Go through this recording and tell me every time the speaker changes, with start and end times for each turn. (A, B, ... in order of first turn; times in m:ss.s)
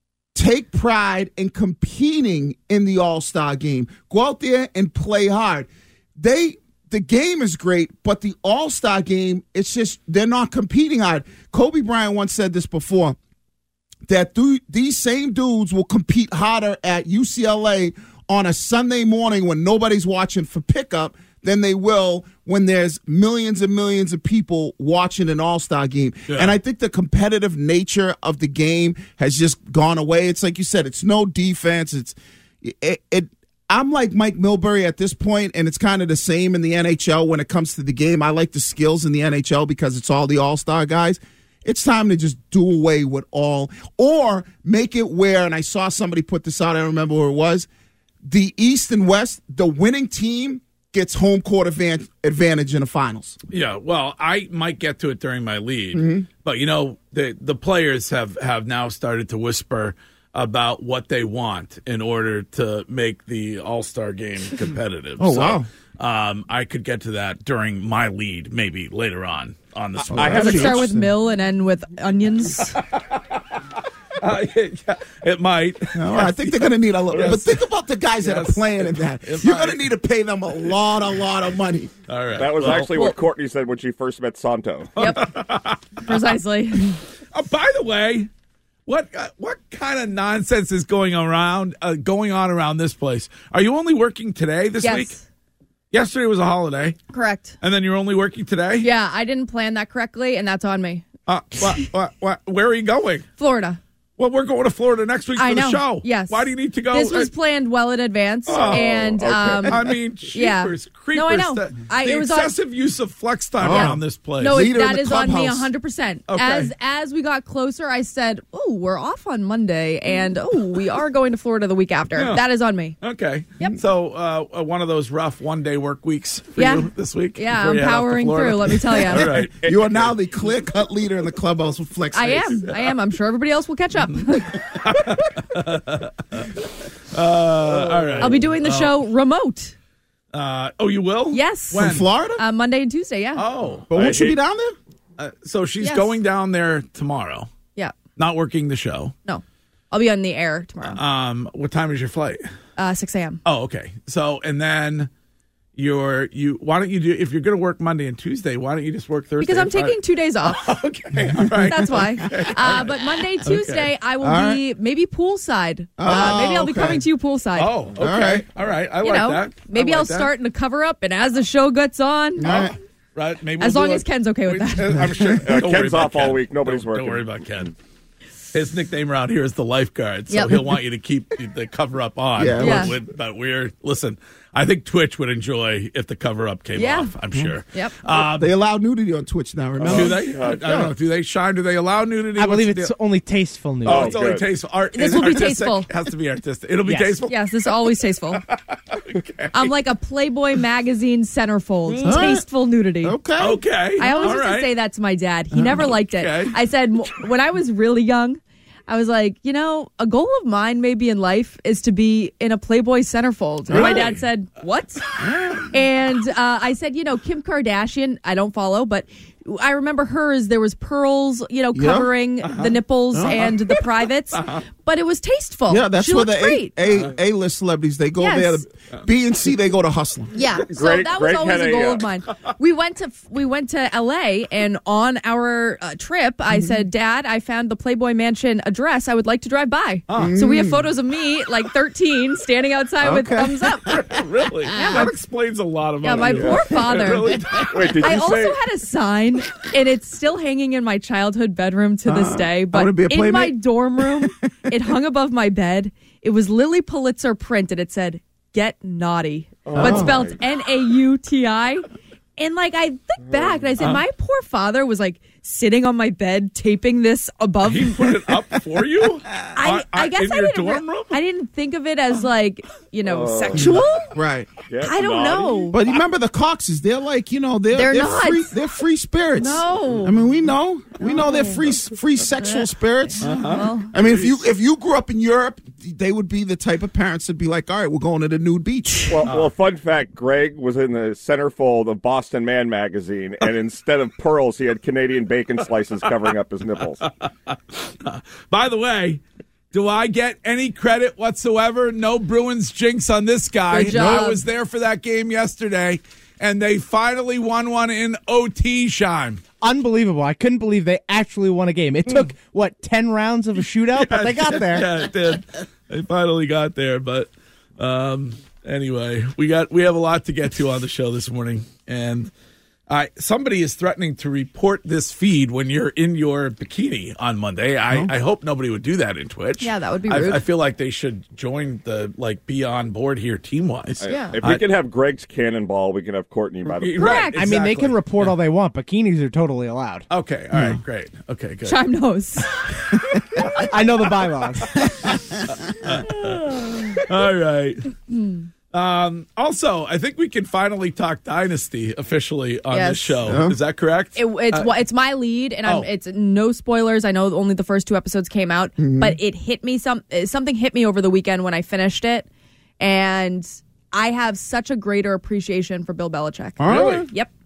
0:00.3-0:13.2 A
0:14.1-0:47.7 A
0:26.3-0:26.5 B
0:48.2-0:53.4 A
0:53.5-1:10.8 B
0:55.9-0:56.3 A
1:05.2-1:05.7 A
1:10.0-1:11.1 A
1:10.2-1:10.8 C
1:10.2-1:12.8 D
1:14.2-1:17.6 B
1:15.9-1:21.9 A
1:18.2-1:19.8 B
1:22.1-1:23.1 B
1:22.4-1:24.9 C
1:25.0-1:25.3 D
1:25.0-1:26.2 B
1:26.0-1:27.0 D
1:27.3-1:28.3 B
1:28.8-1:35.2 B
1:34.8-1:35.2 D
1:35.9-1:37.0 B
1:37.1-1:37.6 D
1:37.6-1:38.9 B
1:38.8-1:41.0 D
1:41.2-1:43.3 B
1:43.4-1:43.8 D
1:44.2-1:47.3 B
1:45.4-1:52.5 D
1:48.5-1:54.6 B
1:48.5-1:49.8 C
1:53.6-1:55.7 A
1:53.7-2:03.0 D
1:56.3-1:56.7 B
2:02.2-2:02.4 B
2:03.0-2:09.6 B
2:06.6-2:09.3 D
2:09.3-2:12.7 A
2:09.6-2:10.1 C
2:12.1-2:14.6 D
2:14.1-2:16.5 B
2:17.1-2:19.0 B
2:17.8-2:18.3 C
2:18.2-2:19.7 D
2:20.3-2:22.0 B
2:21.3-2:23.4 D
2:21.7-2:22.4 A
2:23.4-2:24.3 B
2:23.9-2:24.8 A
2:25.2-2:27.5 B
2:25.8-2:26.1 D
2:28.2-2:29.1 B
2:29.2-2:31.0 D
2:30.8-2:32.5 B
2:32.8-2:33.4 D
2:33.4-2:35.1 B
2:35.8-2:43.9 B
2:39.4-2:40.6 D
2:41.6-2:47.7 D
2:44.2-2:44.6 A
2:46.0-2:47.0 A
2:46.1-2:46.4 B
2:47.6-2:50.3 B
2:48.0-2:48.4 A
2:49.0-2:52.7 D
2:52.4-2:52.7 A
2:52.4-2:57.7 B
2:53.6-2:55.1 D
2:55.0-2:55.4 A
2:55.4-2:57.3 C
2:58.5-3:08.5 B
3:00.3-3:00.7 D
3:02.4-3:03.0 A
3:02.6-3:02.9 D
3:06.8-3:07.1 D
3:08.1-3:10.9 A
3:09.8-3:10.9 C
3:09.9-3:12.9 B
3:12.4-3:14.2 E
3:13.8-3:17.7 B
3:13.8-3:14.5 C
3:14.9-3:15.9 D
3:16.8-3:17.1 E
3:17.3-3:18.4 D
3:18.4-3:19.7 B
3:19.5-3:23.2 D
3:21.9-3:22.2 B
3:22.0-3:22.4 A
3:23.0-3:24.3 A
3:23.4-3:24.7 B
3:24.0-3:35.0 D
3:25.5-3:25.8 A
3:25.9-3:26.5 B
3:33.7-3:34.2 B
3:33.7-3:34.0 A
3:35.2-3:35.7 A
3:35.7-3:46.7 D
3:41.7-3:42.1 A
3:42.4-3:42.8 B
3:43.1-3:43.5 A
3:43.3-3:43.5 B
3:44.3-3:44.6 B
3:45.7-3:50.3 A
3:48.2-3:48.6 D
3:50.3-4:04.0 D
3:50.7-3:52.0 C
4:00.1-4:00.4 B
4:00.1-4:00.9 A
4:03.0-4:04.1 A
4:03.9-4:08.2 B
4:04.7-4:05.1 D
4:06.0-4:07.3 D
4:06.3-4:06.6 C
4:07.3-4:07.6 A
4:07.7-4:08.6 C
4:08.0-4:21.8 D
4:12.0-4:14.3 A
4:19.6-4:20.4 C
4:19.7-4:20.2 A
4:22.4-4:28.1 D
4:27.6-4:31.2 B
4:29.5-4:34.1 D
4:33.0-4:33.8 C
4:33.5-4:34.5 A
4:34.7-4:35.8 C
4:34.8-4:35.8 D
4:35.7-4:49.2 A
4:37.7-4:38.5 D
4:39.4-4:40.2 D
4:41.0-4:41.6 D
4:42.4-4:43.9 D
4:43.2-4:44.3 B
4:49.1-4:57.0 C
4:49.2-4:49.5 B
4:57.5-4:59.2 B
4:59.7-5:09.4 B
5:03.7-5:04.4 D
5:09.6-5:14.9 E
5:13.9-5:22.3 B
5:22.9-5:34.7 B
5:29.6-5:30.4 D
5:34.0-5:37.3 C
5:34.0-5:34.4 D
5:36.8-5:38.3 B
5:37.0-5:37.4 D
5:37.4-5:40.0 E
5:40.1-5:41.8 B
5:40.5-5:40.8 A
5:41.6-5:42.6 D
5:43.2-5:47.9 B
5:43.6-5:44.8 E
5:48.1-5:48.4 D
5:48.7-5:54.7 B
5:52.7-5:53.2 D
5:53.2-5:53.6 A
5:54.2-6:02.3 D
5:58.8-5:59.2 A
6:02.8-6:07.3 D
6:06.6-6:07.0 A
6:06.7-6:07.1 B